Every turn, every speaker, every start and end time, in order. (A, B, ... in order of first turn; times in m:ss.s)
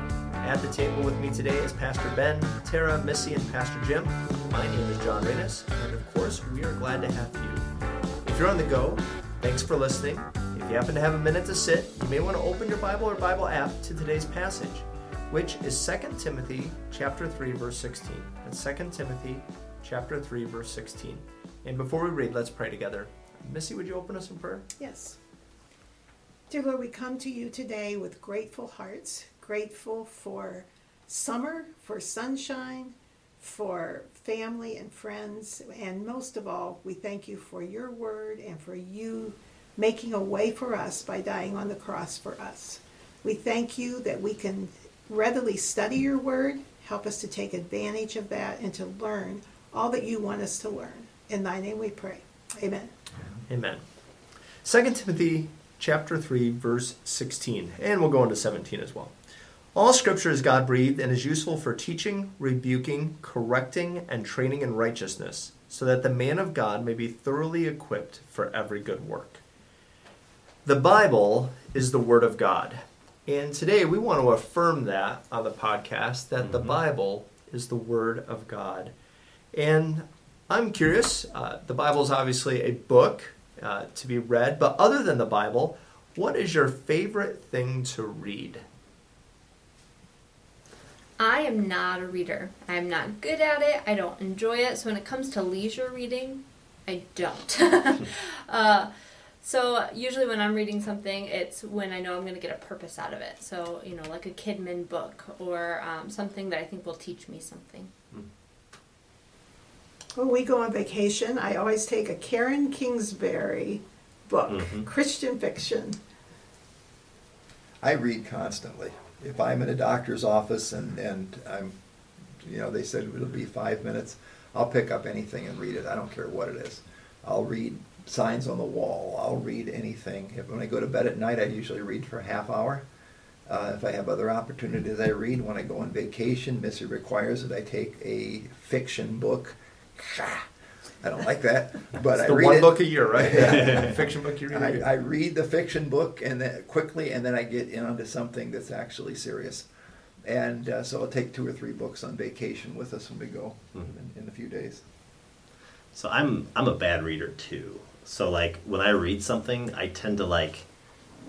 0:00.4-0:07.6 A
0:08.2-0:24.6 A
0:24.8-0:25.2 B
0:26.5-0:52.9 B
0:53.5-0:53.8 A
0:54.6-0:59.1 A
0:59.7-1:09.4 A
1:10.6-1:18.9 A
1:16.4-1:16.8 C
1:19.5-1:28.6 A
1:31.2-1:38.9 D
1:39.4-1:47.9 D
1:50.2-1:56.0 B
1:54.5-1:54.9 C
1:57.8-2:01.8 E
2:02.4-2:12.8 E
2:13.5-2:20.4 E
2:21.0-2:24.0 E
2:22.2-2:24.9 A
2:24.5-2:29.7 E
2:30.2-2:34.8 E
2:35.9-2:40.6 C